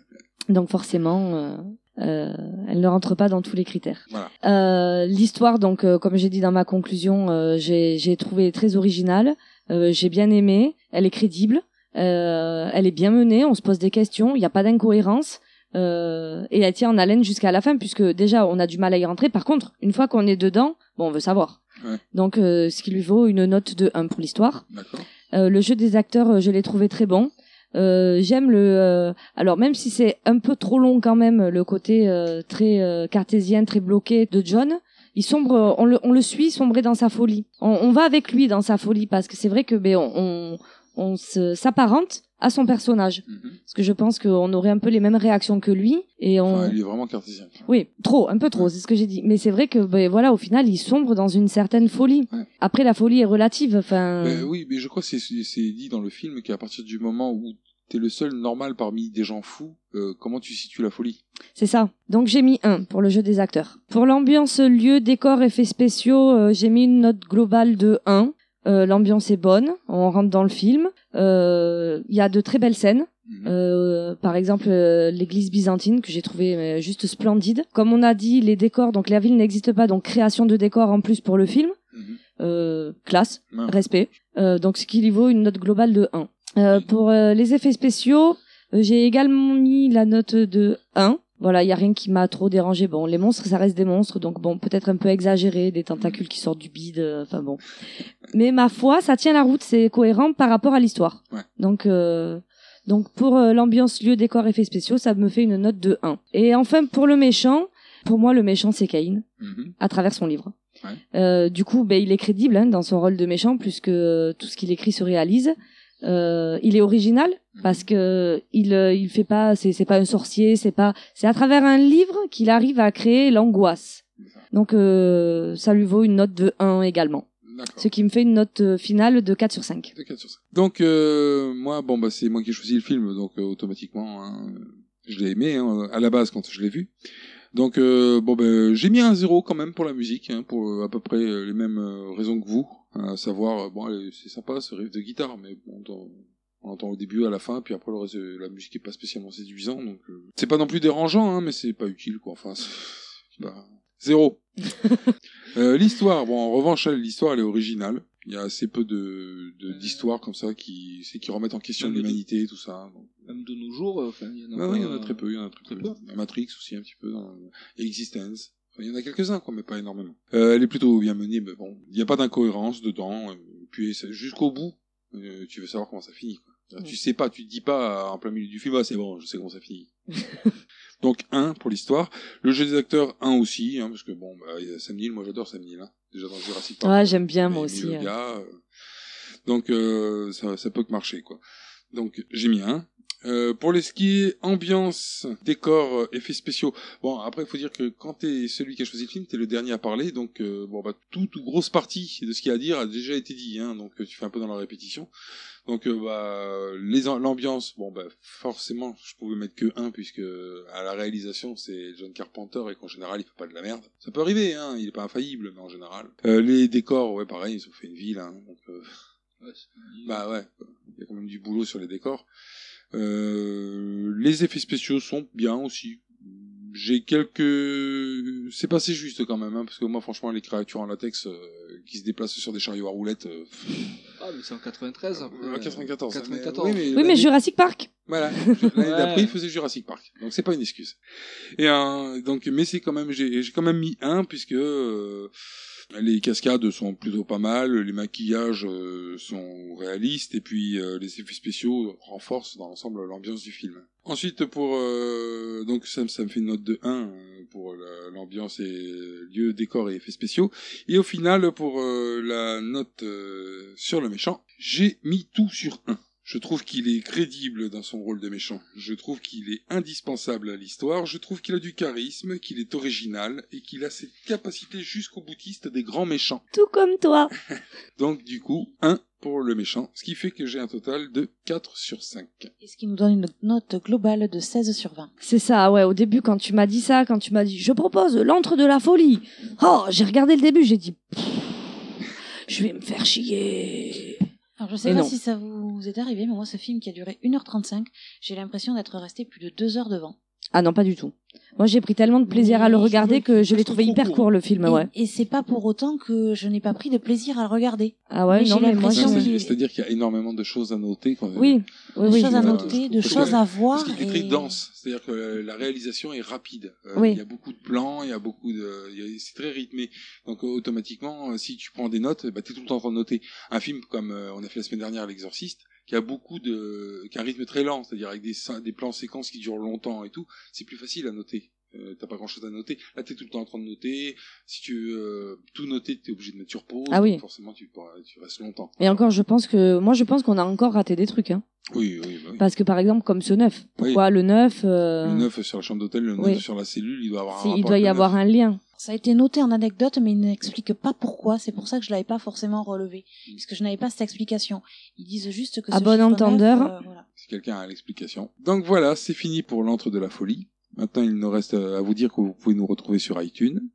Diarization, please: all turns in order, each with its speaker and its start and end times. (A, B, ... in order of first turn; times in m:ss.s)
0:00.5-0:21.6 A
0:22.1-0:24.6 A
0:24.7-0:25.1 B
0:25.3-0:46.8 A
0:43.3-0:43.6 B
0:46.5-0:47.6 B
0:47.7-0:54.5 A
0:54.2-1:01.2 B
1:01.6-1:21.7 A
1:13.2-1:13.5 B
1:21.9-1:22.2 B
1:22.4-1:37.6 A
1:23.5-1:23.8 B
1:38.3-1:49.2 A
1:49.4-1:49.7 B
1:49.8-1:50.5 A
1:51.1-2:07.2 A
1:57.5-1:57.8 B
2:07.4-2:07.9 B
2:07.8-2:09.9 A
2:09.9-2:16.9 B
2:17.5-2:34.4 B
2:35.5-2:43.1 B
2:39.7-2:40.0 C
2:41.8-2:42.2 C
2:43.3-2:46.0 C
2:44.5-2:59.9 B
3:01.0-3:08.6 B
3:06.8-3:08.1 A
3:09.4-3:11.4 B
3:11.9-3:25.1 B
3:25.6-3:39.0 B
3:39.4-3:40.2 C
3:40.0-3:42.3 B
3:42.9-3:54.0 B
3:54.2-3:56.9 C
3:55.1-3:57.3 B
3:56.9-3:58.7 A
3:58.1-4:01.0 B
3:58.8-3:59.3 C
4:01.6-4:05.3 B
4:05.9-4:36.4 B
4:36.5-4:37.3 A
4:38.0-4:42.5 B
4:42.6-4:45.1 D
4:45.2-4:51.8 A
4:52.5-4:54.2 A
4:54.6-5:00.1 D
4:54.8-4:55.1 A
5:00.5-5:04.9 A
5:02.3-5:03.4 D
5:02.8-5:04.2 C
5:04.6-5:09.5 D
5:08.1-5:09.3 A
5:08.8-5:39.0 B
5:11.3-5:13.4 A
5:12.0-5:14.6 D
5:16.9-5:17.2 A
5:36.9-5:37.2 A
5:38.8-5:41.4 A
5:41.7-5:42.4 B
5:42.4-5:45.3 A
5:45.0-5:48.2 B
5:46.2-5:46.4 A
5:47.3-5:48.6 A
5:48.8-5:57.0 D
5:55.7-5:56.7 A
5:57.2-6:03.6 B